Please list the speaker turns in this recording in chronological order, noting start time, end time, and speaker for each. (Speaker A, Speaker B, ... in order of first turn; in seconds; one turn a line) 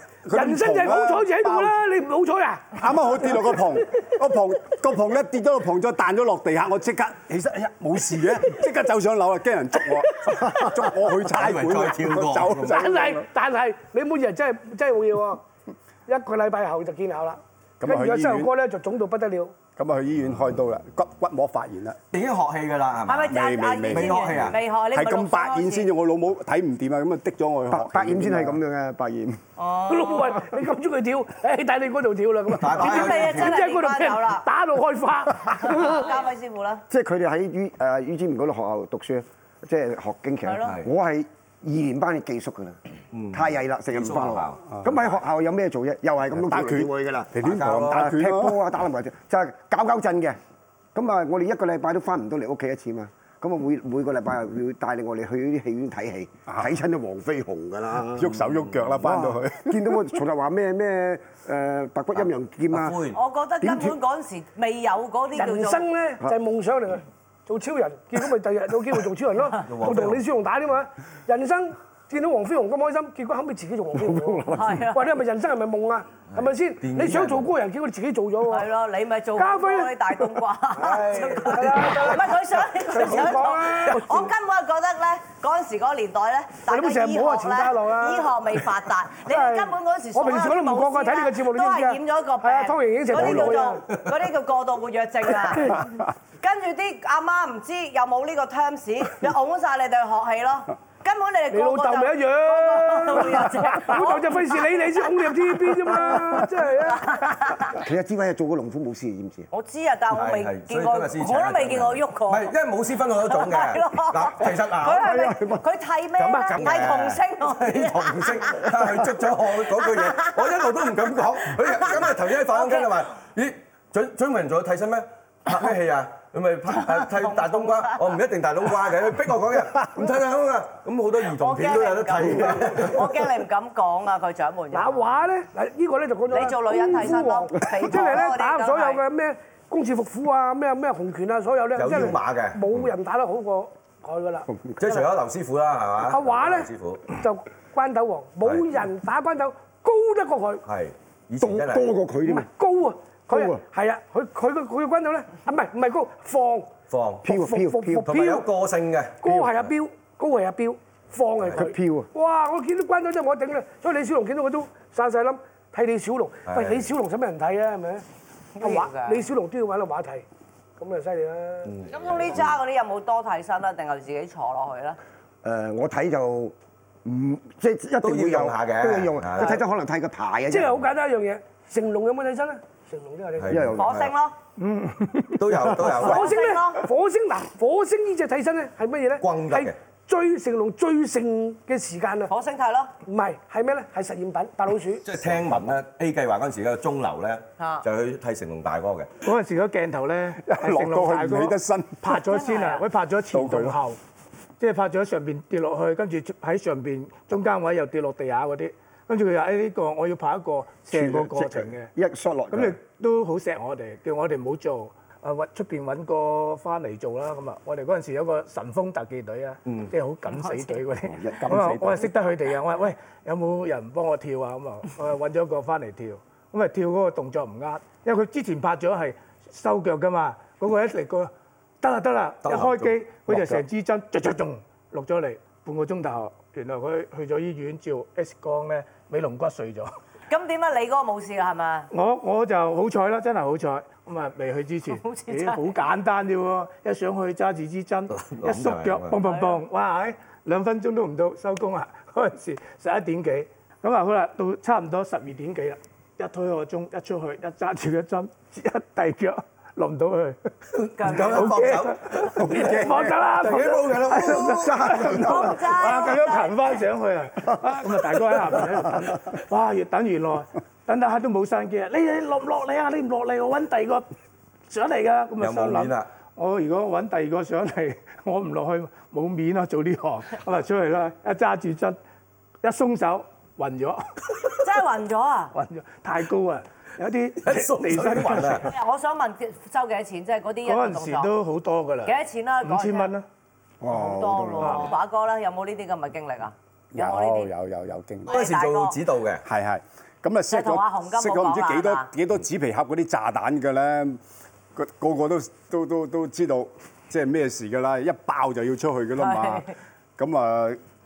Speaker A: 0.2-1.8
Speaker B: 0.3-4.2
Speaker A: 2.8-13.2
Speaker C: 11.3-12.9
Speaker B: 12.6-15.4
Speaker B: 16.1-19.6
Speaker A: 17.8-18.5
Speaker A: 19.8-22.0
Speaker C: 22.1-23.3
Speaker D: 23.1-25.9
Speaker A: 23.3-28.6
Speaker C: 23.9-24.6
Speaker E: 27.7-29.4
Speaker D: 29.6-30.4
Speaker B: 29.9-36.2
Speaker C: 32.5-33.6
Speaker D: 32.7-34.5
Speaker D: 35.7-36.8
Speaker E: 36.9-42.8
Speaker D: 40.5-40.8
Speaker C: 43.1-44.8
Speaker E: 43.3-50.4
Speaker A: 46.4-48.6
Speaker C: 47.4-48.0
Speaker E: 51.0-58.4
Speaker A: 58.1-60.2
Speaker E: 59.0-63.0
Speaker C: 62.2-63.2
Speaker D: 63.1-65.8
Speaker E: 63.6-64.0
Speaker B: 65.4-78.7
Speaker C: 69.6-70.2
Speaker E: 74.0-74.8
Speaker D: 74.5-75.1
Speaker C: 76.3-77.5
Speaker D: 78.5-105.1
Speaker B: 79.4-84.3
Speaker B: 86.7-88.3
Speaker B: 89.3-93.9
Speaker A: 93.2-93.5
Speaker B: 101.5-107.3
Speaker D: 105.7-107.8
Speaker E: 107.7-109.5
Speaker D: 109.5-112.5
Speaker C: 110.1-115.1
Speaker D: 113.3-118.7
Speaker E: 114.9-115.6
Speaker B: 116.3-116.8
Speaker C: 116.6-133.1
Speaker D: 119.8-120.7
Speaker D: 121.6-122.9
Speaker D: 126.9-128.0
Speaker D: 131.4-135.1
Speaker B: 134.7-145.1
Speaker D: 136.3-139.0
Speaker C: 141.8-142.9
Speaker E: 144.5-144.8
Speaker C: 144.8-147.1
Speaker B: 146.1-150.6
Speaker C: 150.7-151.9
Speaker E: 151.4-152.5
Speaker B: 152.2-156.7
Speaker E: 153.3-153.6
Speaker C: 156.9-157.3
Speaker E: 157.2-158.1
Speaker B: 157.3-158.5
Speaker C: 158.0-159.7
Speaker B: 159.2-168.0
Speaker E: 161.6-162.1
Speaker C: 166.5-166.9
Speaker D: 168.6-169.2
Speaker B: 168.6-170.2
Speaker B: 170.8-171.8
Speaker C: 171.7-172.5
Speaker D: 171.9-175.0
Speaker E: 175.4-176.5
Speaker E: 177.1-180.8
Speaker C: 178.0-179.6
Speaker B: 180.5-183.7
Speaker C: 183.4-184.1
Speaker E: 183.5-183.9
Speaker D: 183.8-184.3
Speaker F: 184.6-185.6
Speaker C: 185.4-186.4
Speaker B: 185.8-192.3
Speaker D: 185.9-186.8
Speaker C: 189.2-189.8
Speaker D: 192.3-192.9
Speaker B: 193.1-195.1
Speaker C: 195.1-199.1
Speaker D: 197.6-197.8
Speaker F: 199.2-204.0
Speaker A: 200.4-202.1
Speaker D: 202.3-202.8
Speaker A: 203.3-203.8
Speaker F: 204.6-211.9
Speaker E: 210.9-212.8
Speaker F: 212.5-231.3
Speaker C: 219.7-219.9
Speaker E: 221.1-222.1
Speaker F: 231.8-239.9
Speaker C: 232.4-233.6
Speaker D: 240.3-241.9
Speaker F: 241.9-260.4
Speaker D: 244.9-245.7
Speaker C: 248.1-249.2
Speaker D: 249.2-249.6
Speaker C: 260.8-262.9
Speaker D: 261.0-261.5
Speaker F: 261.1-274.1
Speaker E: 262.5-265.7
Speaker D: 265.1-266.5
Speaker F: 274.7-282.0
Speaker C: 275.4-276.1
Speaker F: 282.6-284.6
Speaker D: 284.6-285.5
Speaker F: 285.5-288.7
Speaker C: 287.4-288.7
Speaker D: 288.6-291.3
Speaker F: 290.6-293.2
Speaker D: 292.1-293.1
Speaker E: 293.8-294.8
Speaker D: 293.9-297.5
Speaker F: 294.6-294.9
Speaker A: 296.9-298.4
Speaker D: 298.3-299.0
Speaker C: 298.3-299.4
Speaker A: 299.4-304.2
Speaker D: 300.5-302.1
Speaker A: 304.8-310.8
Speaker D: 309.2-309.7